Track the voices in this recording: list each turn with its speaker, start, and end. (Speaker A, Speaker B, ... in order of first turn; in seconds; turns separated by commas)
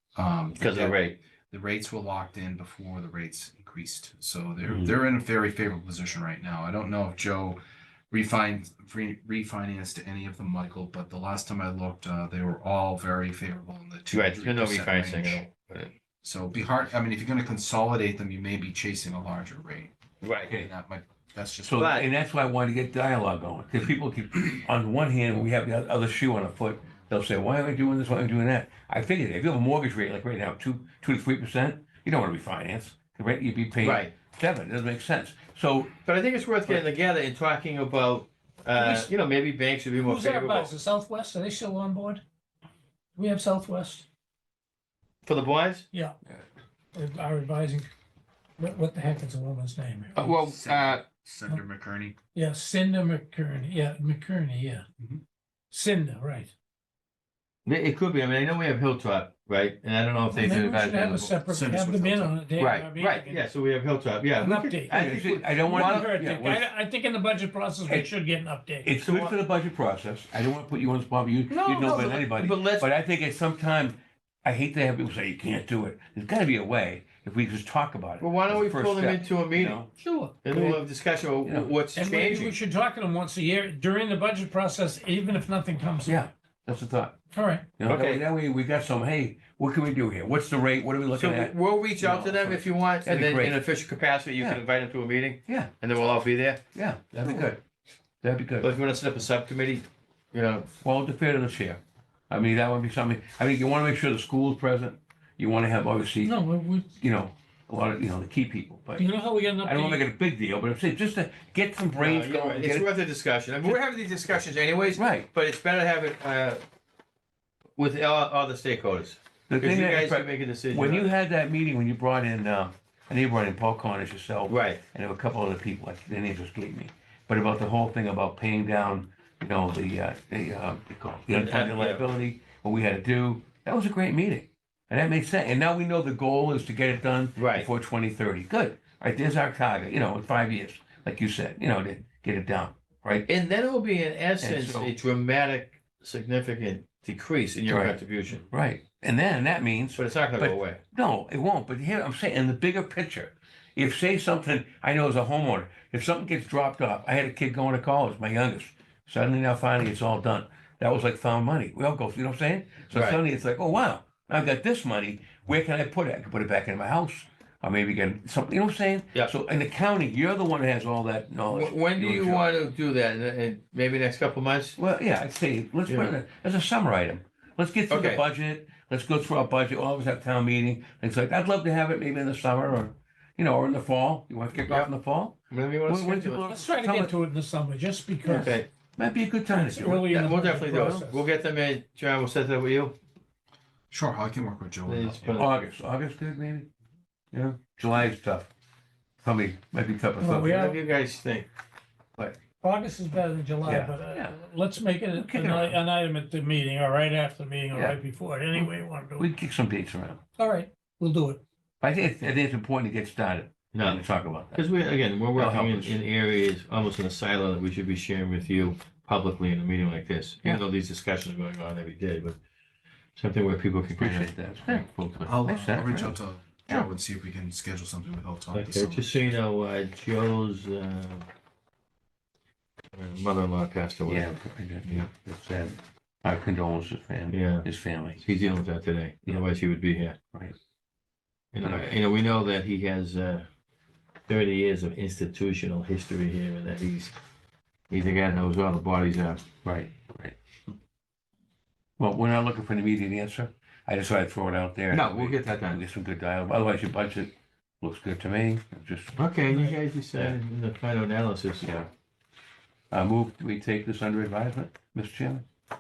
Speaker A: 0.1-7.6, Speaker B: 0.6-1.2, Speaker A: 8.1-15.4, Speaker B: 14.1-15.9, Speaker A: 16.2-20.0, Speaker B: 20.2-20.6, Speaker A: 20.6-21.8, Speaker C: 21.6-35.9, Speaker B: 21.8-22.1, Speaker B: 33.8-34.2, Speaker B: 36.0-40.7, Speaker D: 38.7-39.1, Speaker D: 40.0-42.2, Speaker D: 43.2-44.0, Speaker B: 45.2-45.8, Speaker D: 46.9-47.9, Speaker D: 48.6-50.4, Speaker B: 50.1-51.1, Speaker A: 50.4-52.2, Speaker D: 52.3-54.8, Speaker D: 55.7-56.5, Speaker B: 57.6-61.4, Speaker D: 60.3-63.5, Speaker C: 60.4-60.7, Speaker A: 61.5-62.4, Speaker B: 62.6-66.1, Speaker D: 64.4-68.9, Speaker C: 64.9-66.7, Speaker C: 68.8-79.9, Speaker B: 69.0-69.4, Speaker B: 71.5-72.9, Speaker B: 78.2-82.5, Speaker D: 80.0-80.8, Speaker C: 81.4-81.8, Speaker D: 81.9-86.3, Speaker C: 86.1-87.2, Speaker D: 87.3-87.8, Speaker C: 87.8-93.6, Speaker B: 87.8-88.2, Speaker B: 91.1-96.6, Speaker C: 95.5-95.7, Speaker C: 96.7-97.6, Speaker B: 97.2-97.6, Speaker C: 98.2-98.7, Speaker B: 98.6-100.7, Speaker C: 100.8-106.3, Speaker D: 106.2-106.9, Speaker C: 107.0-109.1, Speaker D: 109.0-110.0, Speaker C: 109.6-112.9, Speaker B: 111.9-116.6, Speaker C: 115.0-115.3, Speaker B: 117.8-121.2, Speaker C: 119.5-143.3, Speaker B: 124.5-124.8, Speaker B: 131.3-132.1, Speaker B: 137.3-137.7, Speaker B: 143.2-148.5, Speaker C: 144.4-144.9, Speaker C: 147.7-172.5, Speaker B: 150.0-150.8, Speaker B: 162.9-163.2, Speaker B: 171.5-174.8, Speaker C: 174.8-187.1, Speaker B: 175.9-176.2, Speaker B: 177.9-178.2, Speaker B: 184.7-184.9, Speaker B: 185.5-186.6, Speaker D: 186.5-188.6, Speaker C: 188.2-191.1, Speaker B: 188.4-188.7, Speaker D: 189.5-191.2, Speaker B: 190.1-192.9, Speaker A: 193.9-195.4, Speaker B: 194.8-195.5, Speaker C: 195.3-196.7, Speaker C: 197.3-198.5, Speaker C: 199.2-200.6, Speaker D: 200.2-200.8, Speaker B: 200.5-201.5, Speaker D: 202.5-209.3, Speaker C: 203.7-204.3, Speaker C: 205.2-205.8, Speaker C: 207.7-208.0, Speaker C: 208.5-210.2, Speaker D: 210.4-211.4, Speaker C: 211.8-214.7, Speaker B: 213.7-222.4, Speaker C: 215.3-216.0, Speaker B: 223.2-225.3, Speaker C: 224.0-224.9, Speaker A: 225.3-229.4, Speaker C: 225.4-226.2, Speaker B: 228.5-231.3, Speaker B: 232.9-234.3, Speaker C: 234.1-238.2, Speaker B: 237.3-240.2, Speaker B: 241.5-243.5, Speaker C: 241.6-241.9, Speaker B: 244.3-247.2, Speaker B: 247.9-249.4, Speaker C: 249.6-250.3, Speaker C: 252.0-259.2, Speaker B: 254.9-255.8, Speaker B: 259.2-261.7, Speaker D: 259.5-259.8, Speaker C: 261.6-261.9, Speaker C: 262.9-265.4